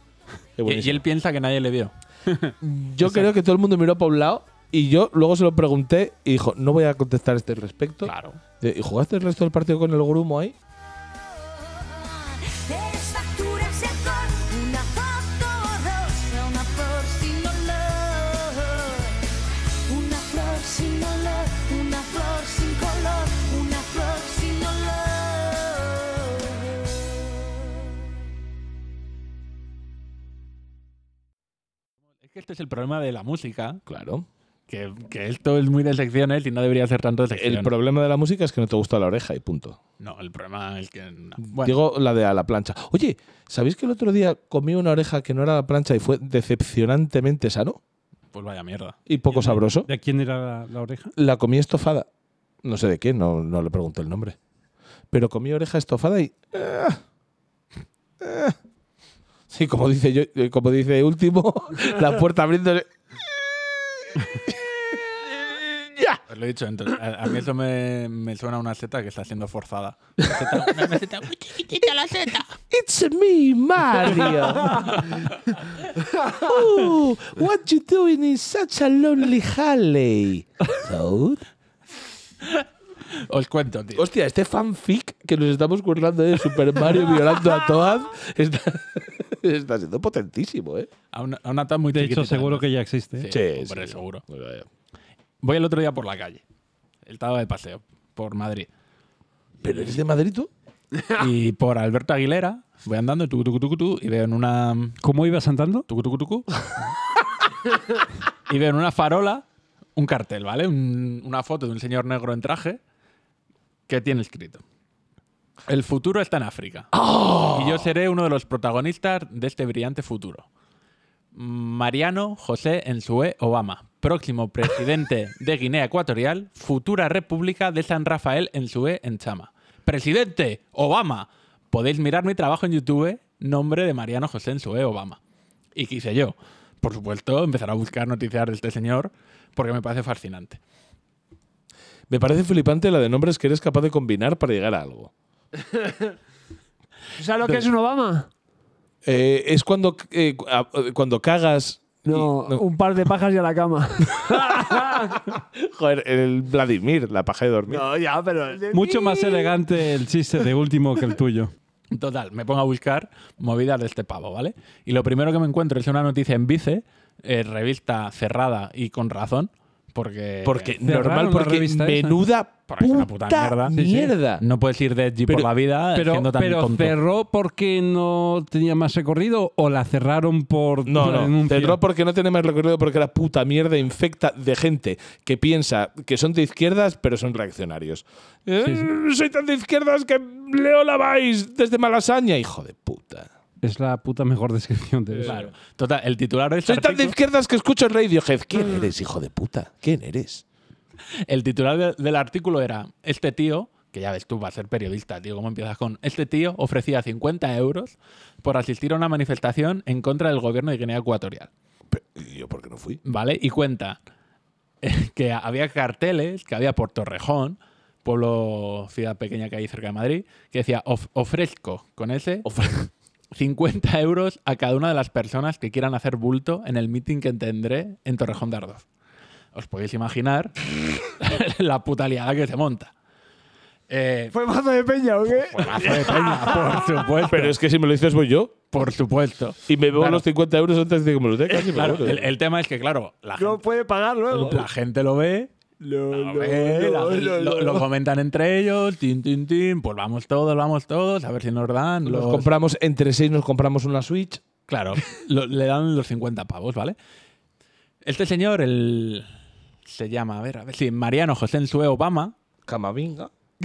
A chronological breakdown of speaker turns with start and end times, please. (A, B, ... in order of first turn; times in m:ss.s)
0:00.6-0:01.0 A
0:00.6-0:02.3 B
0:02.6-0:10.5 A
0:08.0-0:08.4 B
0:11.5-0:27.0 C
0:32.2-0:33.8 B
0:33.9-0:34.3 A
0:34.7-0:37.7 B
0:37.3-0:39.8 A
0:40.0-0:41.8 B
0:41.4-0:47.8 A
0:48.3-0:49.6 B
0:49.1-0:49.9 A
0:49.8-0:51.1 D
0:51.2-0:52.1 A
0:52.6-0:54.4 A
0:55.1-0:57.0 A
0:58.2-0:58.6 A
0:59.5-1:02.9 A
1:06.3-1:12.6 B
1:12.7-1:15.2 A
1:14.7-1:15.2 B
1:16.2-1:21.4 A
1:22.4-1:24.0 B
1:23.9-1:30.9 A
1:31.1-1:34.2 B
1:31.9-1:33.3 D
1:33.3-1:34.7 A
1:35.4-1:36.4 B
1:37.0-1:38.7 B
1:39.6-1:40.5 A
1:41.1-1:45.0 B
1:45.0-1:45.8 D
1:45.9-1:46.6 B
1:48.5-1:52.8 B
1:53.9-1:54.6 B
1:55.7-2:00.4 B
1:56.9-1:57.9 A
2:01.3-2:15.2 B
2:15.7-2:20.6 B
2:22.1-2:25.1 A
2:25.7-2:26.1 E
2:27.2-2:28.3 E
2:29.0-2:32.6 A
2:32.0-2:35.4 E
2:34.2-2:37.8 A
2:37.7-2:39.6 E
2:38.7-2:41.5 D
2:41.9-2:50.7 B
2:50.4-2:54.4 A
2:50.8-2:52.2 D
2:52.7-2:53.8 B
2:53.7-2:54.1 D
2:54.4-2:57.0 B
2:55.9-3:01.8 D
3:00.8-3:13.3 A
3:08.6-3:08.9 D
3:13.6-3:15.4 D
3:15.1-3:15.5 A
3:15.2-3:17.2 B
3:16.6-3:20.4 A
3:21.3-3:31.5 B
3:31.9-3:33.0 A
3:33.0-3:34.0 B
3:34.8-3:42.5 B
3:42.4-3:42.8 A
3:43.3-3:48.8 B
3:49.5-3:52.9 B
3:53.9-3:54.3 B
3:54.3-3:57.0 E
3:55.3-3:57.6 B
3:57.3-3:58.6 A
3:58.7-4:00.2 B
3:59.7-4:02.3 A
4:01.7-4:03.6 B
4:03.4-4:04.6 E
4:04.3-4:05.5 B
4:05.8-4:07.8 E
4:06.1-4:12.5 B
4:12.0-4:14.4 A
4:14.7-4:17.0 B
4:18.0-4:19.3 B
4:19.8-4:22.3 B
4:22.6-4:23.3 A